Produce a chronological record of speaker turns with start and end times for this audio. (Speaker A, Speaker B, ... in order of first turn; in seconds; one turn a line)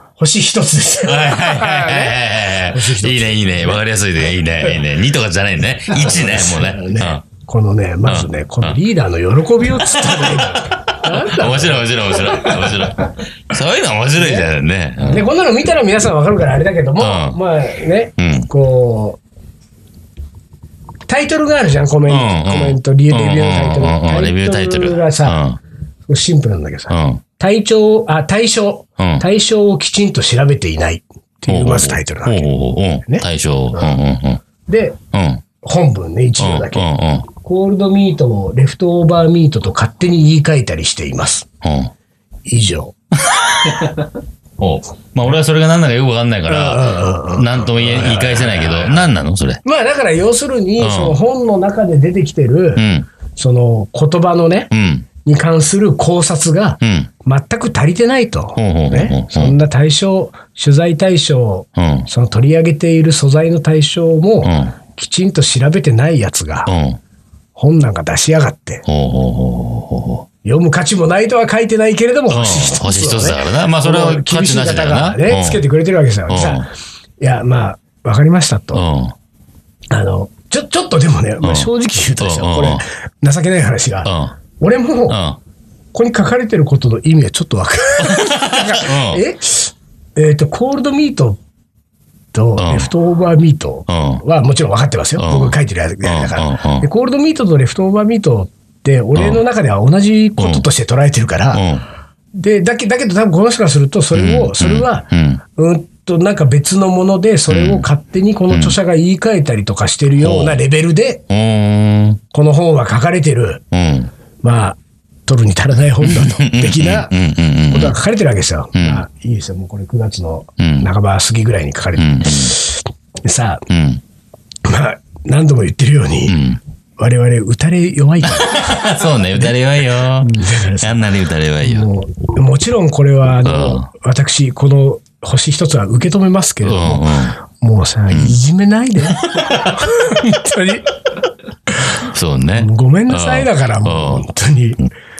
Speaker A: 0.2-3.8
Speaker B: 1.1-7.2
Speaker A: 5.9-12.9
Speaker B: 8.1-8.8
Speaker B: 9.8-15.3
Speaker A: 14.2-14.5
Speaker A: 15.0-19.2
Speaker B: 17.0-17.4
Speaker B: 18.2-18.5
Speaker A: 21.1-25.4
Speaker B: 22.1-25.6
Speaker A: 26.1-32.5
Speaker B: 26.9-27.2
Speaker B: 29.0-29.2
Speaker B: 31.5-34.4
Speaker A: 33.0-33.9
Speaker A: 34.6-35.0
Speaker B: 35.1-35.4
Speaker A: 35.6-41.5
Speaker B: 36.4-37.3
Speaker B: 41.6-41.9
Speaker A: 42.5-42.9
Speaker B: 43.2-44.0
Speaker B: 44.6-49.6
Speaker A: 46.5-49.0
Speaker A: 49.6-52.8
Speaker B: 50.8-51.2
Speaker B: 52.8-53.1
Speaker A: 53.4-54.7
Speaker B: 54.7-55.0
Speaker A: 55.2-66.7
Speaker B: 56.8-57.1
Speaker B: 58.6-59.6
Speaker B: 61.8-62.1
Speaker B: 64.4-64.7
Speaker B: 66.7-67.0
Speaker A: 67.5-68.8
Speaker B: 68.8-70.2
Speaker A: 70.4-76.7
Speaker B: 72.3-75.6
Speaker B: 76.3-76.6
Speaker A: 77.2-78.8
Speaker B: 78.7-79.1
Speaker A: 79.9-85.2
Speaker B: 81.4-82.8
Speaker B: 84.0-84.3
Speaker B: 85.1-85.4
Speaker A: 85.9-91.4
Speaker B: 88.0-89.2
Speaker A: 92.3-101.7
Speaker B: 92.6-92.9
Speaker B: 93.9-94.2
Speaker B: 95.2-96.9
Speaker B: 99.1-99.4
Speaker B: 100.4-100.6
Speaker B: 101.5-101.8
Speaker A: 102.3-111.2
Speaker B: 104.1-105.4
Speaker B: 107.5-107.9
Speaker B: 108.5-108.8
Speaker B: 110.2-110.6
Speaker B: 111.3-112.2
Speaker A: 112.3-113.6
Speaker B: 113.7-114.1
Speaker A: 114.4-117.1
Speaker B: 116.0-118.0
Speaker A: 117.7-123.6
Speaker B: 118.7-119.0
Speaker B: 120.6-120.9
Speaker B: 122.0-122.5
Speaker B: 123.7-124.0
Speaker A: 124.6-126.4
Speaker B: 126.3-126.6
Speaker A: 127.0-129.0
Speaker B: 128.2-131.9
Speaker A: 130.2-131.0
Speaker A: 131.6-140.9
Speaker B: 133.4-133.9
Speaker B: 136.6-137.4
Speaker B: 138.1-138.4
Speaker B: 139.3-139.8
Speaker B: 142.0-144.2
Speaker A: 142.5-144.8